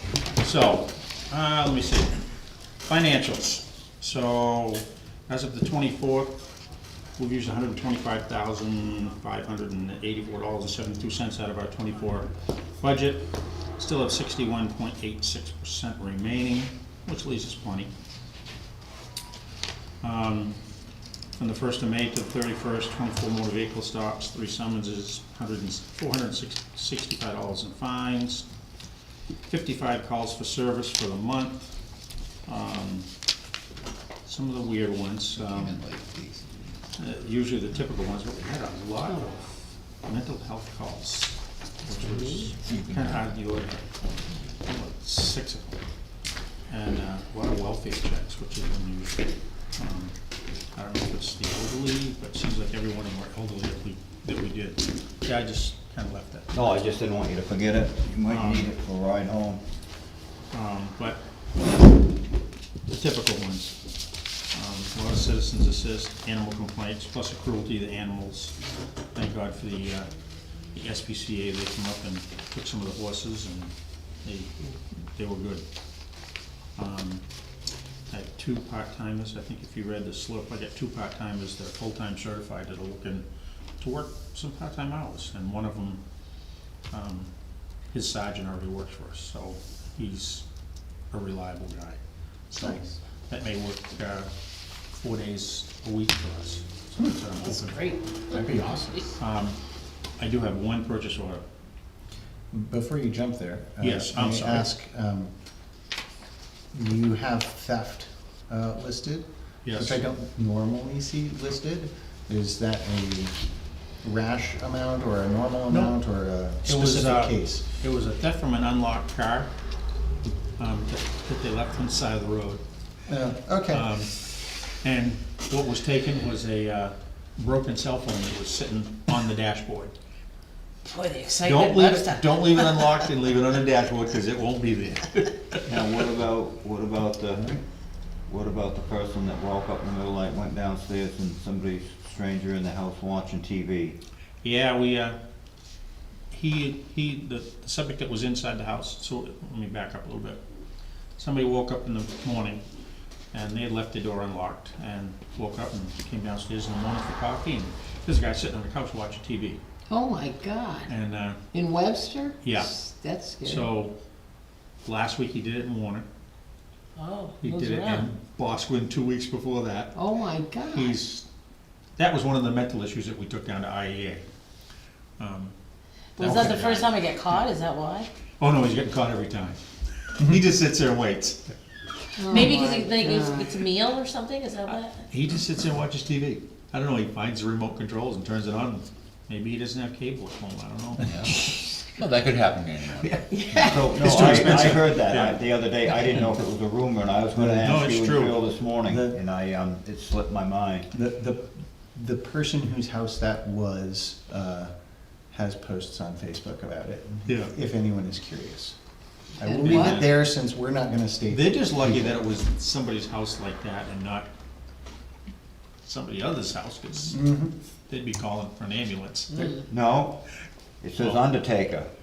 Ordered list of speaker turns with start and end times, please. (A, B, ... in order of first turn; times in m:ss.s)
0:00.4-0:02.2 A
0:02.8-0:06.4 A
0:07.2-0:17.9 A
0:20.0-0:20.6 A
0:21.4-0:28.5 A
0:29.5-0:31.7 A
0:32.4-0:33.1 A
0:34.2-0:35.8 A
0:35.4-0:36.7 B
0:37.0-0:39.4 A
0:40.0-0:43.8 A
0:42.6-0:43.3 B
0:44.6-0:45.8 A
0:46.7-0:50.1 A
0:50.7-0:56.9 A
0:56.5-0:59.6 C
0:58.3-0:58.7 A
1:00.5-1:01.2 A
1:02.9-1:03.8 A
1:04.5-1:08.5 A
1:09.1-1:10.1 A
1:10.7-1:14.5 A
1:15.1-1:15.6 A
1:16.8-1:17.2 A
1:18.1-1:23.2 A
1:23.8-1:26.0 A
1:26.9-1:27.3 A
1:27.9-1:30.4 A
1:31.1-1:32.0 A
1:32.5-1:33.0 D
1:32.6-1:34.3 A
1:34.9-1:37.8 A
1:37.4-1:38.0 E
1:38.3-1:39.0 D
1:39.2-1:39.6 A
1:40.2-1:41.4 A
1:42.5-1:45.3 D
1:43.8-1:44.7 A
1:46.7-1:53.4 D
1:49.6-1:50.0 A
1:54.0-1:57.6 D
1:55.7-1:56.0 A
1:56.6-1:59.5 A
2:00.6-2:02.6 A
2:03.1-2:03.9 D
2:03.7-2:09.9 A
2:10.8-2:13.0 E
2:11.4-2:16.1 A
2:15.7-2:17.6 C
2:18.3-2:24.0 C
2:24.4-2:25.2 A
2:26.3-2:30.4 A
2:31.2-2:32.6 A
2:33.3-2:39.6 A
2:39.9-2:40.9 F
2:40.8-2:41.4 A
2:41.5-2:43.7 F
2:42.4-2:42.7 A
2:43.4-2:43.9 A
2:44.8-2:46.0 A
2:47.0-2:48.1 E
2:47.4-2:50.0 A
2:49.9-2:51.0 F
2:50.7-2:51.2 A
2:52.0-2:54.2 A
2:55.2-2:55.5 A
2:56.2-2:57.0 A
2:56.2-2:58.1 E
2:58.4-3:01.5 A
3:02.2-3:03.6 F
3:02.2-3:05.0 E
3:05.1-3:11.6 A
3:11.1-3:13.8 B
3:13.3-3:14.1 E
3:13.5-3:20.9 C
3:13.9-3:15.4 A
3:17.3-3:17.8 D
3:17.6-3:18.4 A
3:18.8-3:19.2 D
3:20.9-3:24.7 D
3:25.3-3:28.8 D
3:27.2-3:27.5 A
3:29.4-3:32.2 D
3:29.4-3:30.0 F
3:29.6-3:30.1 A
3:31.3-3:34.3 A
3:35.8-3:37.2 A
3:37.1-3:37.5 D
3:37.9-3:39.6 A
3:39.6-3:40.2 C
3:40.8-3:41.9 C